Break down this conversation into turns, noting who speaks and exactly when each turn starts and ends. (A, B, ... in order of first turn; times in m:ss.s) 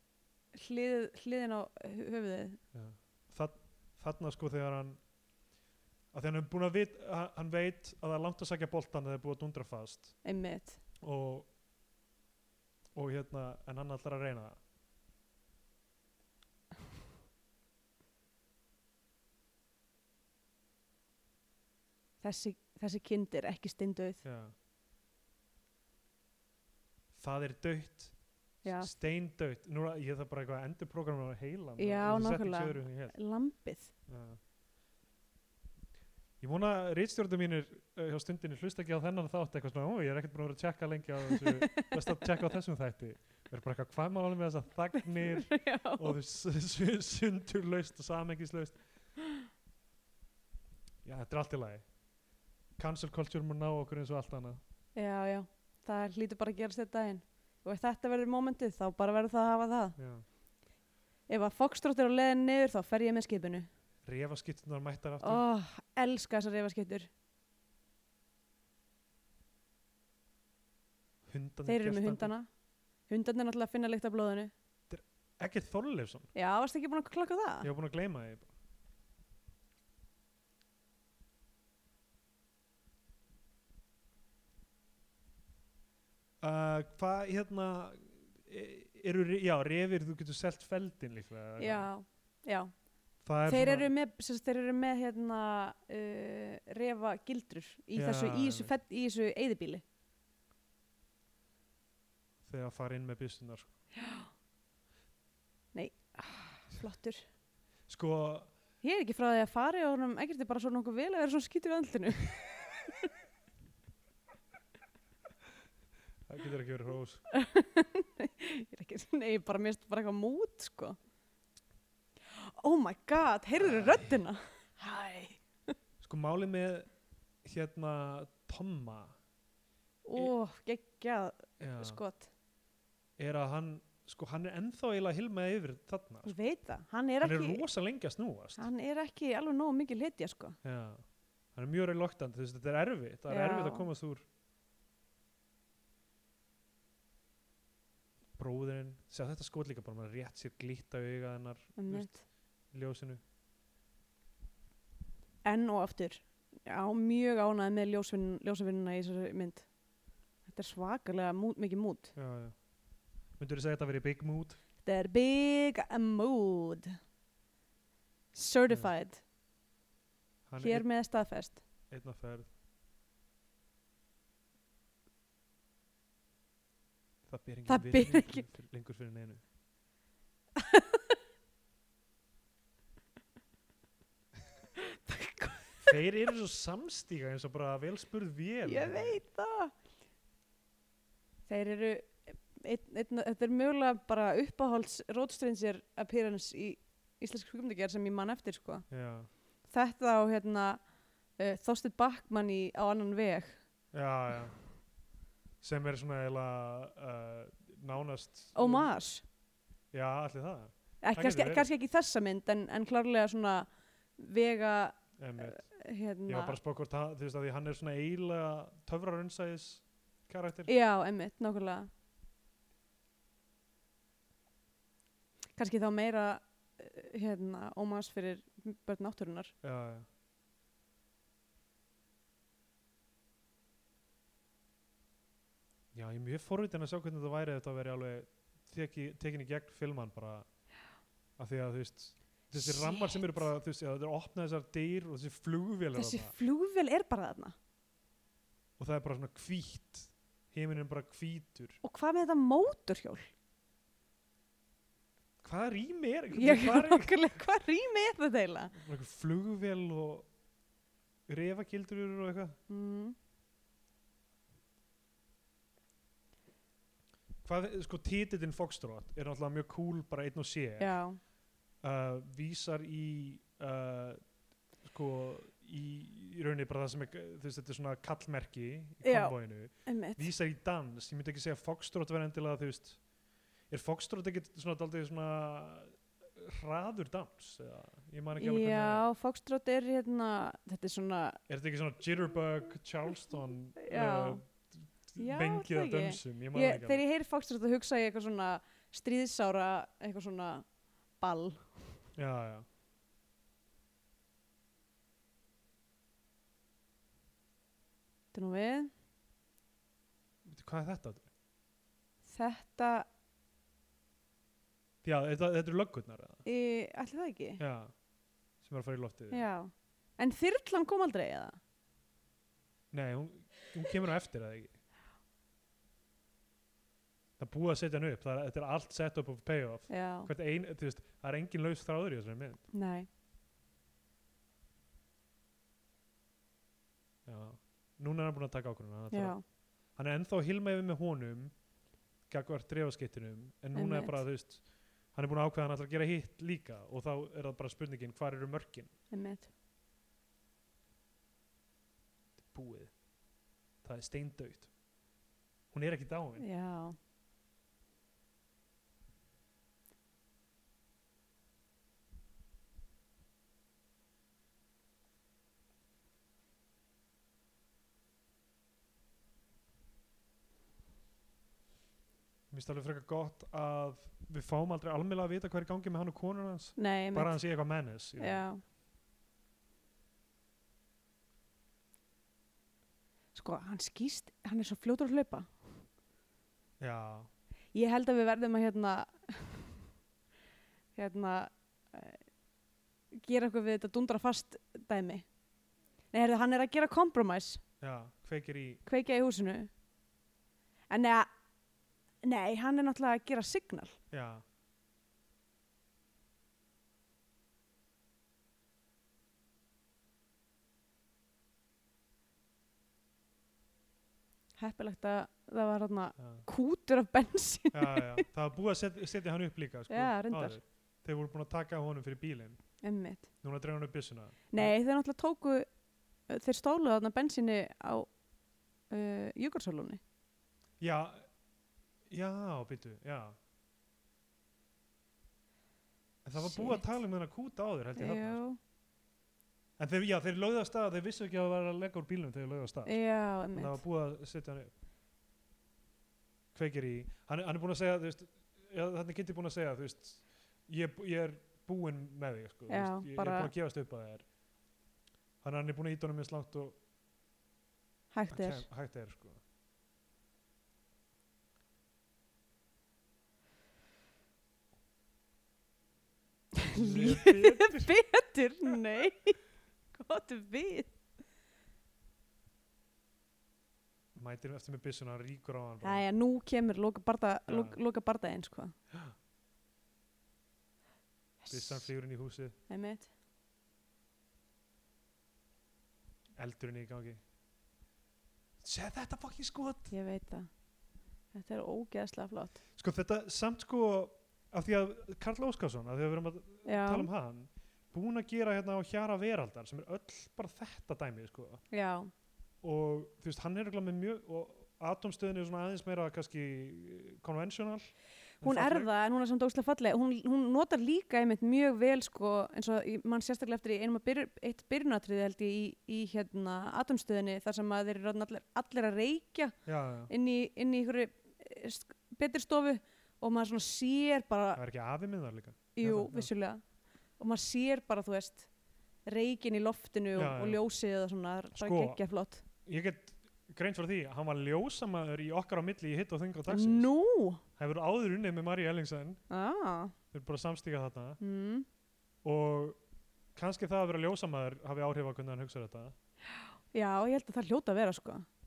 0:00.5-0:02.6 A
0:02.7-0:05.0 B
0:06.1-0:10.2 B
0:10.2-0:10.8 A
0:11.0-0:11.5 B
0:12.9-0:14.6 B
0:22.2-0:24.2 A
0:24.2-0:24.5 B
0:27.1-0:28.1 B
0:28.6-0:28.9 A
0:28.7-0:33.2 B
0:31.8-0:33.9 A
0:34.1-0:34.4 B
0:36.4-0:48.8 B
0:41.3-0:42.2 A
0:45.1-0:46.2 A
0:51.0-0:51.9 B
0:52.8-0:54.6 B
0:54.9-1:00.0 A
1:00.0-1:00.2 B
1:01.3-1:03.7 A
1:04.0-1:05.4 B
1:05.2-1:07.1 A
1:11.2-1:12.3 B
1:11.6-1:12.5 A
1:13.1-1:14.5 A
1:14.9-1:16.3 B
1:16.3-1:17.7 A
1:17.6-1:18.5 B
1:26.4-1:31.9 B
1:31.6-1:32.7 A
1:33.2-1:33.9 B
1:33.4-1:39.8 A
1:37.9-1:38.7 B
1:42.4-1:43.7 B
1:44.0-1:44.3 A
1:45.7-1:47.2 A
1:47.9-1:48.5 B
1:48.8-1:52.5 A
1:56.3-1:57.3 B
1:57.3-2:01.0 A
2:02.3-2:05.7 A
2:03.6-2:04.1 B
2:06.0-2:06.9 B
2:07.4-2:09.2 B
2:10.0-2:12.3 A
2:11.6-2:12.0 B
2:13.2-2:16.4 B
2:16.2-2:17.6 A
2:17.2-2:18.7 B
2:18.6-2:20.6 A
2:20.6-2:21.0 B
2:21.5-2:24.2 B
2:23.3-2:23.9 A
2:28.4-2:33.2 B
2:31.8-2:32.2 A
2:35.4-2:39.7 A
2:40.4-2:42.1 A
2:42.2-2:42.6 B
2:43.4-2:44.6 B
2:44.8-2:46.9 A
2:48.3-2:49.2 A
2:50.5-2:50.9 B
2:50.6-2:51.6 A
2:51.9-2:52.5 B
2:57.3-2:59.4 B
2:57.7-2:58.5 A
3:00.6-3:01.0 A
3:04.8-3:06.0 A
3:05.8-3:09.2 B
3:08.6-3:09.7 A
3:11.5-3:18.9 A
3:18.9-3:19.3 B
3:19.7-3:20.8 A
3:21.4-3:23.6 A
3:23.9-3:24.6 B
3:25.6-3:28.9 B
3:28.5-3:29.2 A
3:29.9-3:31.7 B
3:31.0-3:36.6 A
3:35.2-3:35.7 B
3:36.3-3:40.7 B
3:40.7-3:41.9 A
3:45.6-3:49.5 A
3:49.6-3:50.0 B
3:55.9-4:00.5 B
4:01.4-4:06.3 B
4:02.6-4:03.4 A
4:05.9-4:07.5 A
4:08.8-4:11.8 B
4:11.8-4:13.3 A
4:15.4-4:17.2 B
4:16.3-4:18.7 A
4:18.7-4:20.3 B
4:21.3-4:22.6 B
4:22.7-4:23.1 A
4:27.4-4:31.0 B
4:30.8-4:31.2 A
4:31.8-4:34.2 B
4:34.8-4:43.0 B
4:39.0-4:40.3 A
4:43.7-4:49.1 B
4:48.4-4:51.4 A
4:51.5-4:57.0 B
4:53.8-4:54.4 A
4:55.2-5:00.7 A
5:01.2-5:01.9 A
5:02.2-5:02.6 B
5:08.3-5:08.9 A
5:10.4-5:11.3 B
5:12.2-5:13.0 A
5:15.0-5:16.4 B
5:16.4-5:17.6 A
5:17.6-5:17.9 B
5:18.6-5:19.5 B
5:19.3-5:21.6 A
5:22.9-5:24.8 B
5:27.4-5:32.6 B
5:29.9-5:30.3 A
5:32.7-5:33.1 A
5:37.2-5:39.4 B
5:39.1-5:39.4 A
5:39.9-5:41.5 B
5:42.3-5:48.9 B
5:43.7-5:44.2 A
5:49.1-5:49.5 A
5:52.4-5:52.9 B
5:53.8-5:54.7 B
5:55.7-5:56.5 B
5:56.4-5:56.9 A
6:12.5-6:18.5 B
6:16.8-6:17.4 A
6:18.2-6:18.6 A
6:23.3-6:25.5 A
6:26.8-6:27.3 B
6:27.7-6:29.8 A
6:30.9-6:32.2 A
6:33.1-6:35.2 A
6:36.1-6:37.6 A
6:37.8-6:38.8 B
6:38.8-6:39.7 A
6:40.9-6:41.3 A
6:42.2-6:44.0 A
6:44.1-6:44.4 B
6:54.6-6:58.2 A
6:56.2-6:56.4 B
6:57.7-7:02.7 B
6:59.9-7:00.6 A
7:02.8-7:03.3 A
7:03.4-7:04.7 B
7:04.5-7:05.7 A
7:06.3-7:08.1 A
7:08.9-7:10.0 A
7:10.8-7:11.3 B
7:12.1-7:13.4 B
7:16.2-7:18.4 B
7:16.4-7:16.9 A
7:18.0-7:18.6 A
7:19.8-7:24.7 B
7:22.8-7:23.8 A
7:26.5-7:34.3 B
7:32.7-7:33.5 A
7:35.4-7:36.8 B
7:38.1-7:38.6 A
7:38.3-7:39.4 B
7:46.6-7:49.4 A
7:46.7-7:47.9 B
7:49.9-7:50.9 A
7:54.1-7:56.0 B
7:55.8-7:58.7 A
7:57.5-7:57.8 B
7:58.9-7:59.2 B
8:01.4-8:01.9 A
8:01.5-8:02.5 B
8:02.7-8:03.1 A
8:06.4-8:07.2 B
8:08.6-8:09.9 B
8:09.9-8:10.5 A
8:11.3-8:12.6 A
8:12.8-8:21.6 B
8:16.6-8:17.1 A
8:21.7-8:22.1 A
8:22.6-8:28.9 B
8:28.4-8:39.5 A
8:39.6-8:40.1 B
8:40.1-8:44.6 A
8:44.5-8:46.3 B
8:45.8-8:46.6 A
8:47.2-8:48.5 A
8:49.0-8:52.4 A
8:50.1-8:50.6 B
8:51.5-8:52.0 B
8:52.6-8:56.9 B
8:56.5-8:57.4 A
8:57.6-8:59.2 B
8:59.3-8:59.9 A
9:00.1-9:01.2 B
9:01.2-9:01.6 A
9:02.2-9:02.8 B
9:03.3-9:05.9 B
9:06.4-9:08.2 A